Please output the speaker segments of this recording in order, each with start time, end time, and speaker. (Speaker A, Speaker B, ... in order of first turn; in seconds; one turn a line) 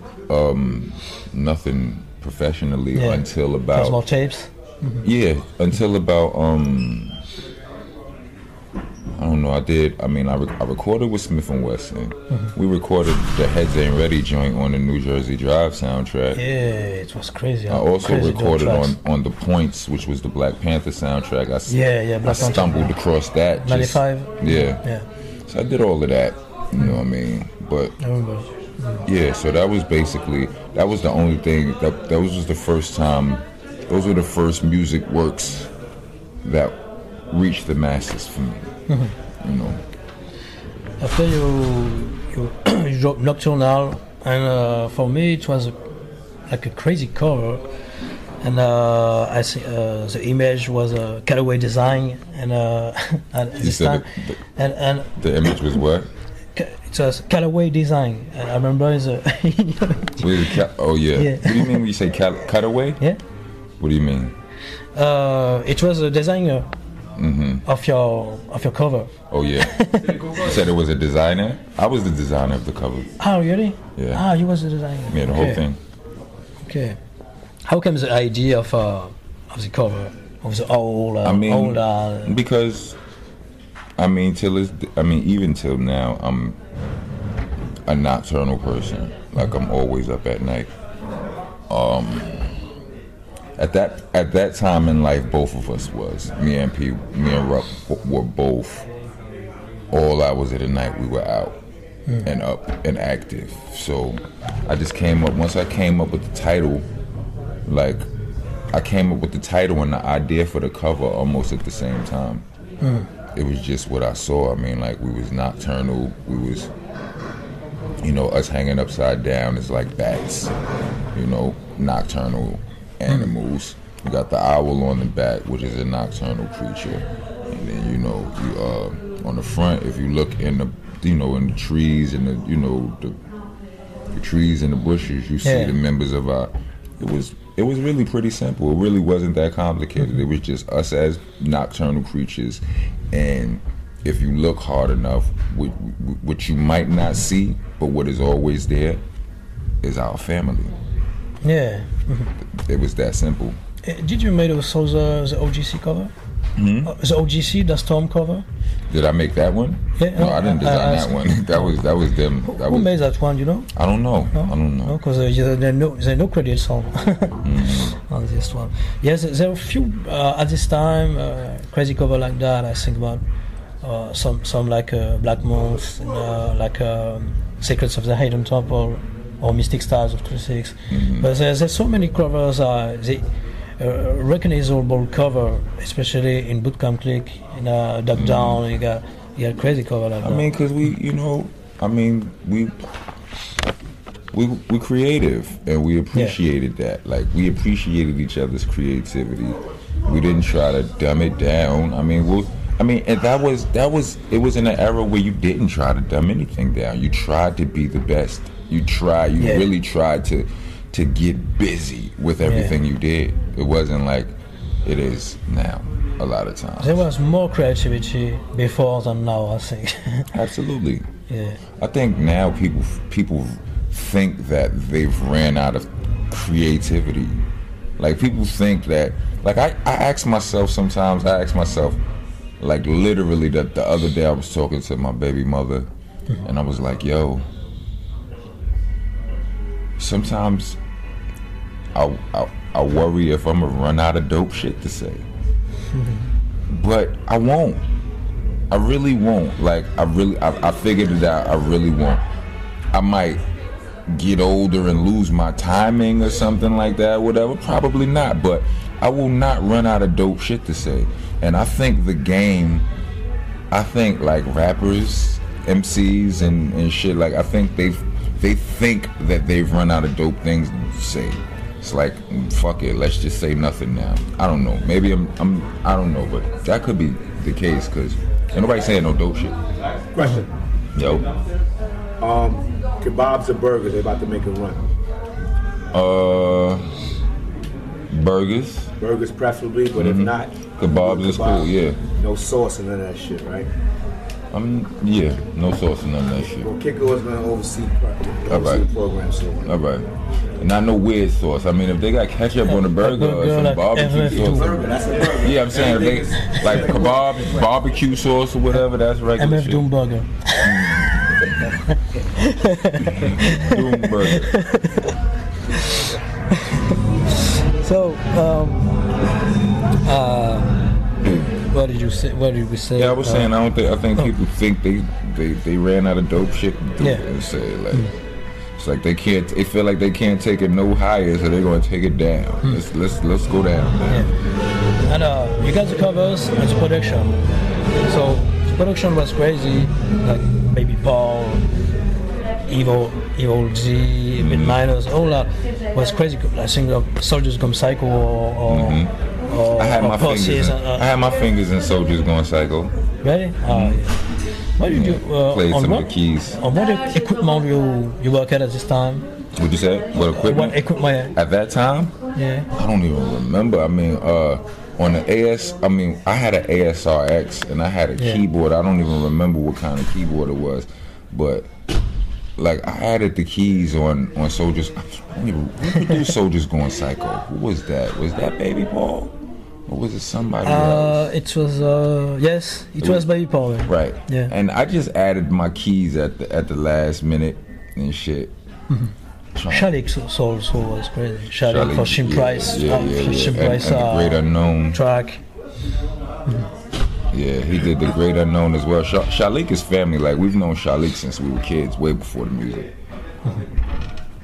Speaker A: 0.3-4.0
Speaker B: 2.9-5.0
Speaker A: 5.0-7.2
Speaker A: 9.2-16.4
Speaker B: 16.3-18.9
Speaker A: 17.7-24.8
Speaker B: 21.7-22.9
Speaker B: 23.6-25.1
Speaker A: 25.5-27.9
Speaker B: 28.0-29.0
Speaker A: 29.0-35.7
Speaker A: 36.4-38.7
Speaker B: 38.9-39.1
Speaker A: 39.4-39.8
Speaker B: 41.0-45.7
Speaker B: 46.5-47.6
Speaker B: 48.4-55.7
Speaker A: 53.6-54.4
Speaker A: 55.2-56.1
Speaker B: 56.5-60.6
Speaker A: 60.2-63.0
Speaker B: 61.1-61.8
Speaker A: 63.8-64.3
Speaker B: 64.9-66.7
Speaker A: 67.2-67.6
Speaker B: 67.6-70.3
Speaker A: 69.3-73.1
Speaker B: 73.2-75.6
Speaker A: 74.0-74.2
Speaker A: 75.1-75.8
Speaker B: 76.6-77.0
Speaker B: 77.6-82.4
Speaker A: 81.2-83.0
Speaker A: 84.0-86.6
Speaker A: 87.8-90.7
Speaker A: 91.7-92.5
Speaker A: 93.6-98.9
Speaker A: 99.9-101.6
Speaker A: 102.2-106.9
Speaker A: 107.6-108.1
Speaker A: 108.7-112.4
Speaker B: 112.8-113.1
Speaker A: 113.3-116.7
Speaker A: 118.0-120.5
Speaker A: 121.1-133.2
Speaker A: 134.1-149.0
Speaker B: 135.4-135.8
Speaker A: 149.8-150.7
Speaker B: 151.4-152.3
Speaker A: 152.4-153.6
Speaker B: 153.8-156.1
Speaker A: 156.6-156.9
Speaker B: 156.8-158.4
Speaker A: 158.9-162.9
Speaker B: 160.0-161.7
Speaker B: 162.4-163.7
Speaker A: 163.7-165.0
Speaker B: 164.3-173.2
Speaker A: 167.4-167.9
Speaker B: 173.8-183.2
Speaker A: 180.9-181.3
Speaker B: 183.8-190.5
Speaker A: 188.1-188.6
Speaker A: 190.2-192.8
Speaker A: 194.3-217.0
Speaker B: 196.1-196.4
Speaker B: 209.4-209.7
Speaker B: 212.4-212.8
Speaker B: 216.8-220.3
Speaker A: 220.3-221.1
Speaker B: 221.3-221.6
Speaker A: 221.8-227.4
Speaker A: 228.0-232.0
Speaker A: 232.6-235.9
Speaker A: 236.4-237.5
Speaker A: 240.0-240.8
Speaker A: 241.9-245.2
Speaker B: 245.9-246.3
Speaker A: 246.7-247.8
Speaker A: 248.7-252.2
Speaker A: 252.9-253.4
Speaker A: 254.1-262.9
Speaker A: 263.7-279.6
Speaker C: 280.1-281.2
Speaker A: 280.9-281.3
Speaker C: 282.2-284.8
Speaker A: 285.9-286.9
Speaker A: 288.1-288.9
Speaker C: 289.0-293.7
Speaker A: 289.9-292.0
Speaker A: 294.5-296.7
Speaker C: 296.6-299.7
Speaker A: 298.5-298.9
Speaker A: 299.6-300.1
Speaker A: 300.6-309.9
Speaker B: 302.6-304.8
Speaker C: 304.3-307.7
Speaker B: 309.4-310.9
Speaker A: 310.5-311.7
Speaker B: 311.9-315.1
Speaker A: 313.0-314.5
Speaker B: 315.7-317.0
Speaker B: 317.8-319.1
Speaker B: 320.0-320.8
Speaker B: 321.5-323.5
Speaker A: 323.0-328.1
Speaker B: 327.0-327.2
Speaker A: 328.8-334.1
Speaker B: 335.1-337.4
Speaker B: 338.0-341.6
Speaker B: 342.7-351.1
Speaker A: 344.4-344.8
Speaker A: 348.7-349.1
Speaker A: 349.7-352.9
Speaker B: 353.2-354.2
Speaker A: 353.6-354.0
Speaker B: 354.8-359.3
Speaker A: 354.8-356.6
Speaker A: 359.6-362.1
Speaker B: 360.4-361.3
Speaker B: 362.3-362.7
Speaker A: 362.7-371.7
Speaker B: 368.1-368.4
Speaker A: 372.6-381.3
Speaker B: 380.6-384.5
Speaker A: 383.0-383.3
Speaker A: 383.9-388.5
Speaker A: 389.5-389.9
Speaker B: 389.7-395.4
Speaker A: 391.6-395.0
Speaker B: 396.4-396.7
Speaker A: 397.3-402.9